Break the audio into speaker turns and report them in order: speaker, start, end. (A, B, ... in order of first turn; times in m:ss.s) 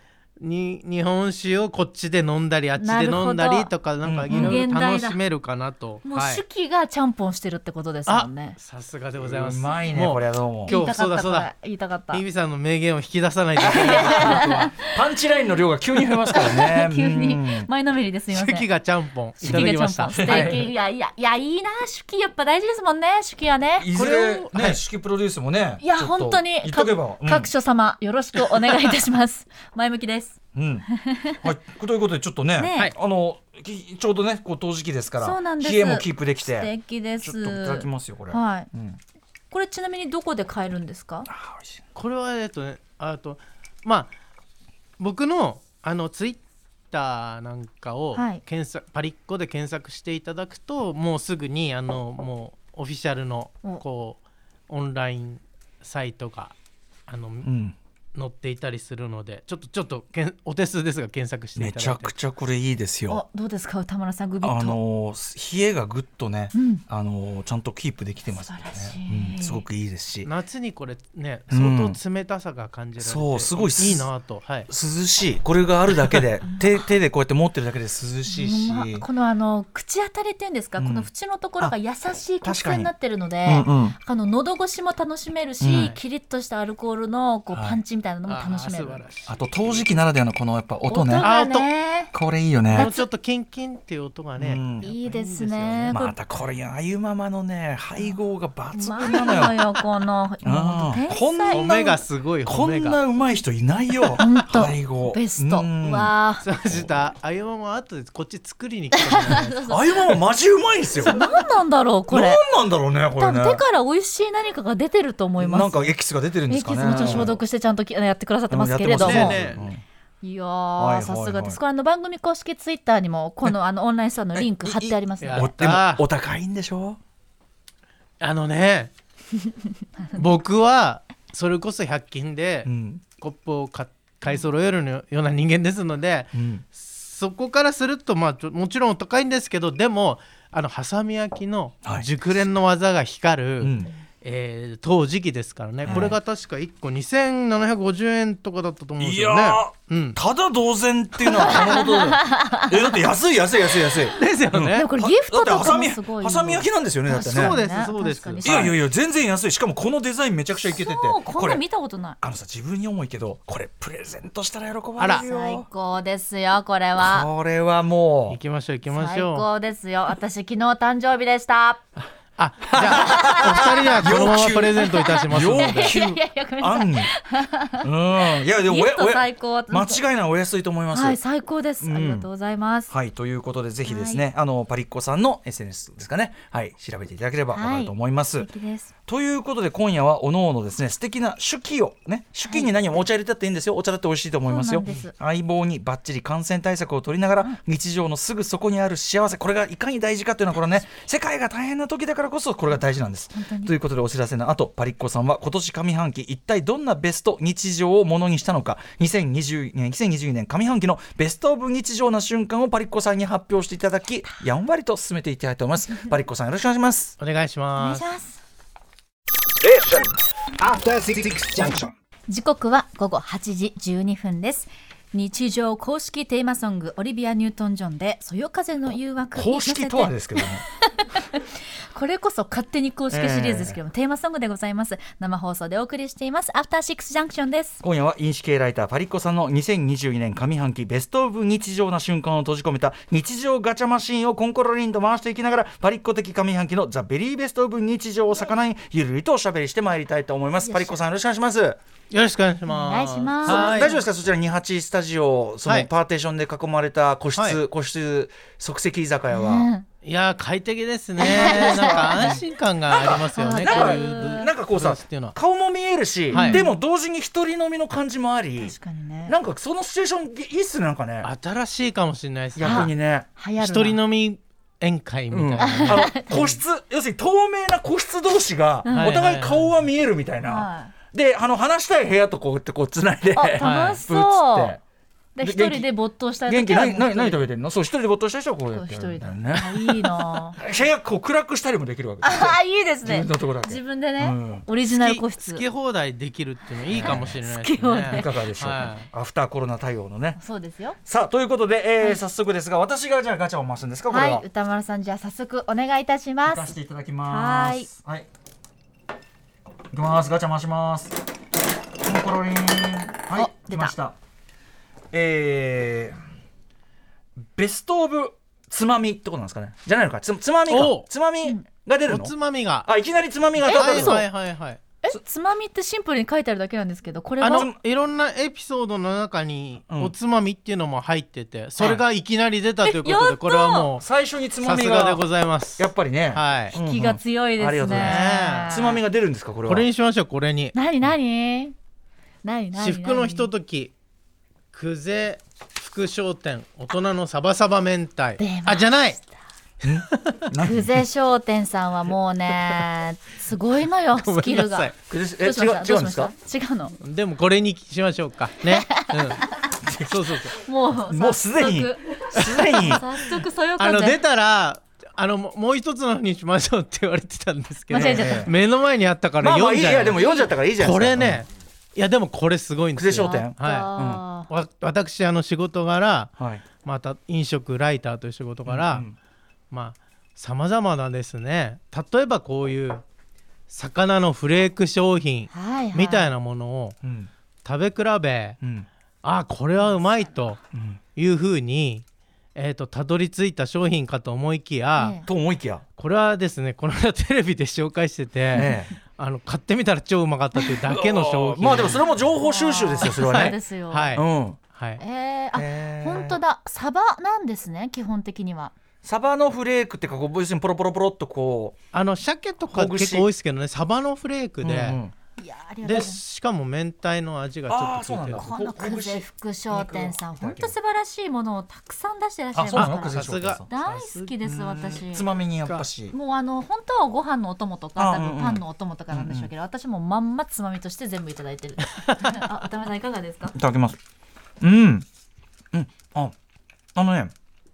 0:00.4-0:06.4 A
0:02.8-0:03.7 B
0:04.0-0:04.6 C
0:04.3-0:05.2 B
0:06.0-0:08.6 B
0:08.1-0:11.5 A
0:09.2-0:10.8 C
0:10.7-0:12.2 B
0:12.1-0:14.8 A
0:13.7-0:17.7 C
0:13.7-0:14.9 B
0:16.3-0:18.7 B
0:18.3-0:20.6 A
0:19.4-0:20.6 C
0:19.4-0:23.9 B
0:23.8-0:27.5 C
0:24.0-0:24.8 A
0:25.8-0:31.4 B
0:30.5-0:30.9 C
0:31.4-0:39.0 C
0:32.6-0:32.9 B
0:35.2-0:38.7 B
0:39.5-0:41.3 B
0:41.3-0:41.8 C
0:42.0-0:44.1 A
0:45.0-0:56.5 A
0:48.2-0:48.4 B
0:57.1-0:57.5 A
0:57.4-0:57.8 C
0:58.2-1:02.2 A
1:01.6-1:03.2 C
1:03.1-1:04.8 B
1:04.4-1:10.3 C
1:06.5-1:06.8 B
1:08.3-1:09.6 B
1:10.2-1:14.7 A
1:11.5-1:12.0 C
1:13.0-1:14.1 C
1:14.7-1:19.0 C
1:16.4-1:16.7 B
1:18.3-1:29.0 B
1:20.8-1:21.1 C
1:22.4-1:22.9 C
1:23.5-1:24.0 C
1:25.6-1:26.0 C
1:27.5-1:27.8 C
1:28.3-1:29.8 A
1:29.3-1:31.3 C
1:30.9-1:32.1 B
1:31.2-1:31.7 A
1:32.1-1:32.9 C
1:32.7-1:33.1 B
1:32.7-1:36.0 A
1:34.4-1:34.8 C
1:34.8-1:36.1 B
1:35.9-1:39.8 C
1:38.7-1:41.9 B
1:40.4-1:46.1 C
1:41.5-1:43.0 A
1:44.2-1:46.4 B
1:46.4-1:49.8 A
1:49.0-1:49.8 B
1:49.3-1:51.2 C
1:51.0-1:52.4 B
1:52.1-1:53.6 C
1:53.2-1:55.9 B
1:55.4-1:57.4 C
1:56.5-1:59.4 B
1:56.8-1:57.4 A
1:58.5-1:59.8 C
1:59.0-1:59.7 A
2:00.2-2:05.5 B
2:00.8-2:01.6 C
2:04.4-2:07.0 C
2:05.2-2:06.0 A
2:08.2-2:08.9 A
2:10.2-2:30.2 A
2:12.7-2:13.0 C
2:16.3-2:16.6 C
2:23.6-2:23.9 C
2:25.8-2:26.2 C
2:29.0-2:37.6 C
2:31.4-2:33.0 B
2:34.1-2:34.9 A
2:34.7-2:38.7 B
2:37.2-2:38.7 A
2:38.4-2:41.6 C
2:40.7-2:42.2 B
2:42.2-2:45.7 C
2:45.0-2:45.2 A
2:45.2-2:47.3 B
2:47.0-2:48.4 C
2:48.3-2:49.5 A
2:48.9-2:51.8 B
2:52.4-2:56.0 A
2:52.7-2:57.1 C
2:52.8-3:00.0 B
2:57.8-3:01.2 C
3:00.9-3:02.9 B
3:01.8-3:02.3 C
3:02.9-3:08.5 C
3:03.9-3:04.2 B
3:07.5-3:08.9 B
3:09.1-3:37.2 C
3:12.5-3:12.7 B
3:14.5-3:15.1 B
3:23.3-3:23.7 B
3:37.2-3:38.1 A
3:37.8-3:38.4 B
3:39.6-3:41.9 D
3:42.3-3:57.8 B
3:49.4-3:50.6 C
3:53.1-3:53.8 C
3:57.8-4:11.8 C
4:10.6-4:11.0 B
4:12.1-4:14.0 A
4:12.7-4:14.0 B
4:13.5-4:19.7 C
4:19.3-4:19.8 B
4:20.0-4:25.4 A
4:21.2-4:22.4 B
4:21.5-4:28.8 C
4:23.3-4:24.5 B
4:26.3-4:26.6 A
4:26.3-4:26.7 B
4:28.6-4:29.4 B
4:29.3-4:31.3 C
4:31.2-4:32.9 A
4:32.6-4:33.3 C
4:32.6-4:34.0 B
4:33.6-4:36.1 A
4:35.3-4:44.8 C
4:35.6-4:36.6 B
4:38.8-4:39.2 B
4:38.9-4:39.8 A
4:40.4-4:40.9 B
4:43.4-4:44.8 B
4:43.6-4:44.0 A
4:45.4-4:47.4 B
4:45.4-4:45.9 C
4:46.5-4:54.7 C
4:48.7-4:50.6 B
4:52.2-4:55.6 B
4:54.9-4:59.1 A
4:56.9-4:57.3 C
4:57.0-4:58.3 B
4:58.1-5:00.4 C
5:00.4-5:01.0 B
5:01.0-5:04.4 C
5:04.1-5:06.7 B
5:06.4-5:08.3 C
5:07.3-5:07.9 B
5:09.9-5:11.2 C
5:12.0-5:14.2 C
5:13.3-5:14.0 B
5:15.1-5:16.2 C
5:17.4-5:24.2 C
5:20.7-5:21.1 A
5:22.1-5:22.9 A
5:23.6-5:24.8 A
5:23.6-5:24.3 B
5:25.0-5:27.7 B
5:27.4-5:34.1 A
5:27.5-5:27.8 C
5:32.8-5:33.9 B
5:34.0-5:35.3 C
5:34.6-5:36.8 A
5:35.8-5:39.9 C
5:36.7-5:39.0 B
5:37.8-5:38.8 A
5:39.7-5:40.8 A
5:40.7-5:41.8 B
5:42.4-5:43.5 B
5:42.8-5:43.9 A
5:44.7-5:49.2 A
5:48.4-5:49.2 B
5:49.8-5:51.1 C
5:49.9-5:50.5 A
5:50.6-5:57.0 B
5:54.2-5:54.9 A
5:55.1-5:56.3 C
5:57.0-5:59.4 A
5:58.7-5:59.5 B
5:59.8-6:00.4 C
6:00.0-6:00.6 A
6:00.6-6:04.2 B
6:01.0-6:03.0 C
6:02.4-6:03.0 A
6:03.8-6:10.2 A
6:07.9-6:08.5 B
6:07.9-6:08.5 C
6:09.4-6:11.4 C
6:10.2-6:10.5 B
6:10.8-6:13.9 A
6:13.0-6:14.2 C
6:13.2-6:14.5 B
6:14.4-6:19.1 A
6:16.4-6:16.6 C
6:18.7-6:19.2 C
6:19.7-6:23.0 A
6:23.7-6:27.0 A
6:25.5-6:26.3 B
6:27.0-6:27.3 C
6:27.6-6:28.6 A
6:28.6-6:28.9 C
6:29.2-6:30.6 A
6:29.8-6:30.4 B
6:30.7-6:31.0 C
6:31.2-6:32.0 A
6:32.6-6:35.2 A
6:35.0-6:35.3 B
6:35.2-6:35.8 C
6:36.0-6:42.0 A
6:38.5-6:38.9 C
6:40.9-6:43.6 C
6:42.4-6:44.2 B
6:43.0-6:45.0 A
6:44.1-6:44.6 C
6:45.0-6:48.7 B
6:45.5-6:46.4 C
6:49.0-6:51.8 C
6:51.9-6:55.0 A
6:52.7-6:53.3 C
6:54.6-6:55.1 C
6:55.4-6:56.2 B
6:55.8-6:58.5 A
6:57.7-7:00.7 C
6:58.4-7:05.3 B
7:02.6-7:03.7 C
7:02.7-7:04.3 A
7:04.4-7:06.1 C
7:06.1-7:13.6 B
7:08.0-7:09.5 C
7:13.5-7:14.0 C
7:14.6-7:15.1 C
7:15.7-7:16.3 C
7:17.0-7:17.3 C